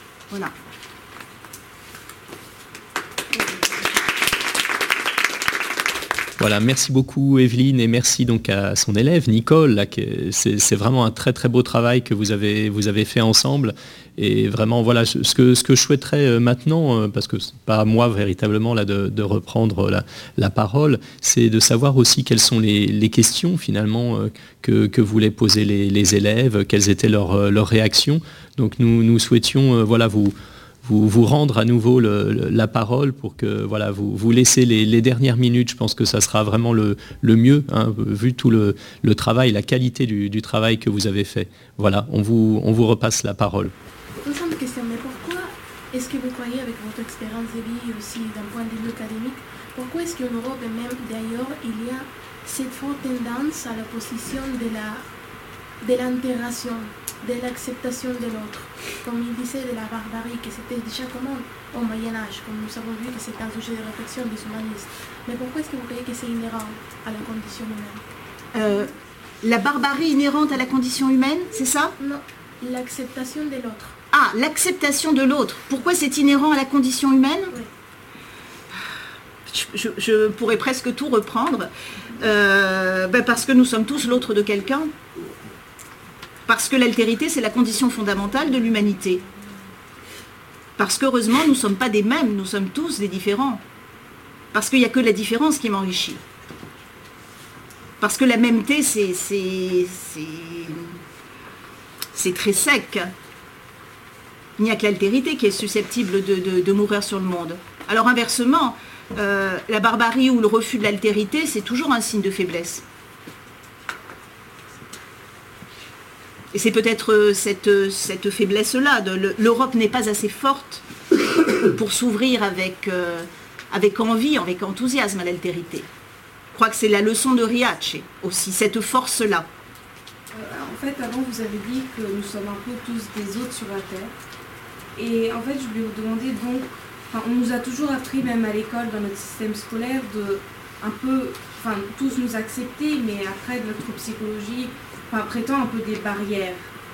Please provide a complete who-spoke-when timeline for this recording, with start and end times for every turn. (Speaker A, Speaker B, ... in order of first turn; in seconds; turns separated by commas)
Speaker A: 6.4-43.7, Speaker B: 44.2-55.1, Speaker B: 55.8-68.0, Speaker C: 68.5-68.9, Speaker C: 69.4-72.0, Speaker B: 72.0-74.0, Speaker C: 74.1-77.5, Speaker C: 79.5-84.9, Speaker C: 86.5-89.2, Speaker C: 90.8-93.6, Speaker C: 94.5-96.2, Speaker C: 98.0-101.0, Speaker C: 102.1-103.1, Speaker C: 104.6-112.8, Speaker C: 116.5-120.8, Speaker C: 121.7-125.9, Speaker C: 126.5-129.5, Speaker D: 130.3-134.1, Speaker D: 135.0-146.7